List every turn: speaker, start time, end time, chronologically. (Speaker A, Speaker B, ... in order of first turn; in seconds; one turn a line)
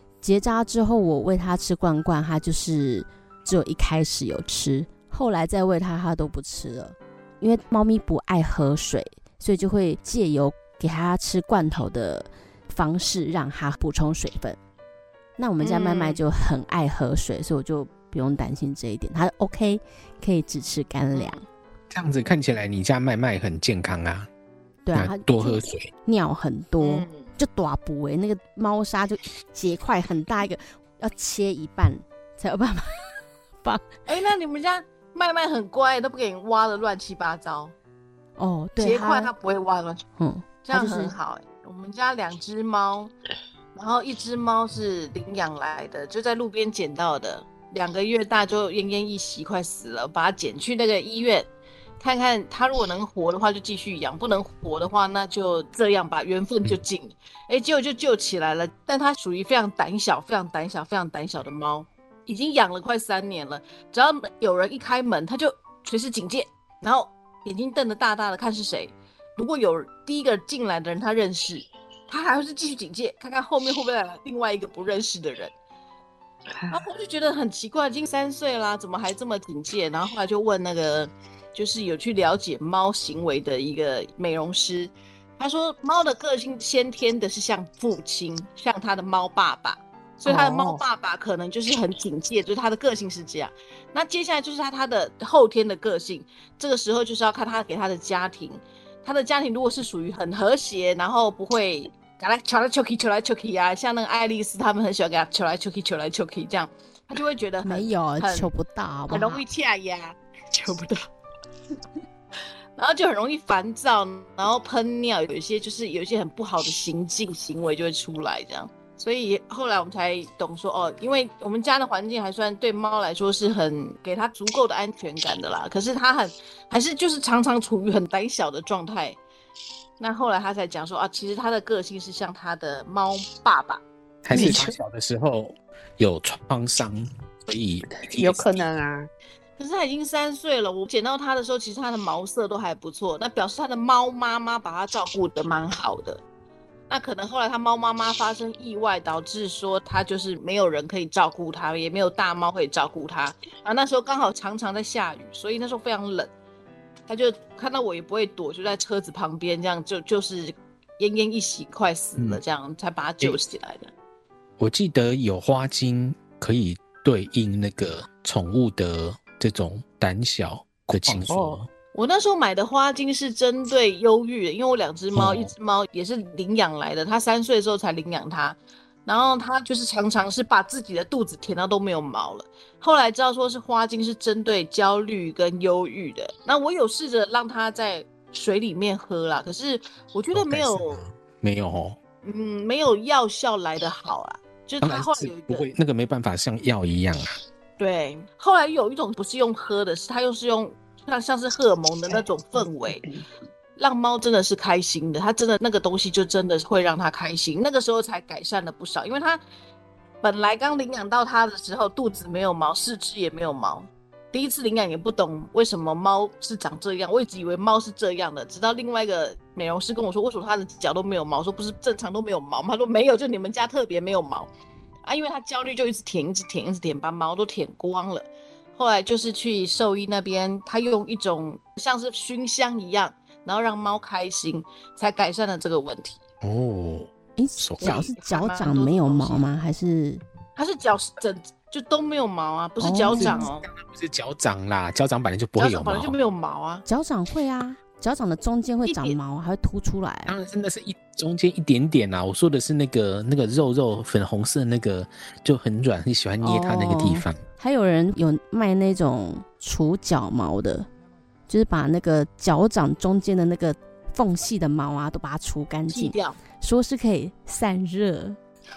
Speaker A: 0.2-14.6
Speaker A: 15.4-21.4
Speaker B: 15.6-16.2
Speaker B: 21.1-21.4
Speaker C: 21.9-24.3
Speaker A: 24.8-33.1
Speaker C: 24.9-25.9
Speaker B: 26.8-27.3
Speaker B: 34.1-37.7
Speaker A: 38.4-39.3
Speaker B: 38.8-40.0
Speaker A: 40.2-41.1
Speaker B: 40.6-43.1
Speaker B: 43.8-51.5
Speaker B: 52.0-75.5
Speaker B: 76.7-108.5
Speaker D: 90.2-90.8
Speaker A: 107.6-109.4
Speaker B: 109.1-111.0
Speaker B: 112.8-129.2
Speaker B: 130.0-133.8
Speaker C: 134.2-138.7
Speaker D: 134.3-134.7
Speaker B: 134.4-134.6
Speaker D: 138.2-139.1
Speaker B: 139.6-146.2
Speaker B: 146.9-156.3
Speaker B: 157.1-163.9
Speaker C: 164.6-171.7
Speaker D: 170.9-171.6
Speaker B: 171.9-191.0
Speaker C: 175.1-175.5
Speaker C: 190.3-192.0
Speaker B: 192.2-195.7
Speaker C: 194.8-197.3
Speaker B: 197.8-203.1
Speaker D: 202.8-203.2
Speaker B: 203.8-209.4
Speaker B: 210.2-224.5
Speaker B: 225.1-236.2
Speaker C: 236.4-238.1
Speaker A: 237.4-240.2
Speaker B: 237.8-239.4
Speaker B: 240.6-243.7
Speaker A: 242.8-243.5
Speaker C: 243.1-246.2
Speaker B: 245.6-246.8
Speaker A: 246.9-250.3
Speaker B: 248.8-249.2
Speaker C: 250.3-257.4
Speaker A: 256.4-260.9
Speaker A: 261.5-268.4
Speaker B: 265.9-266.4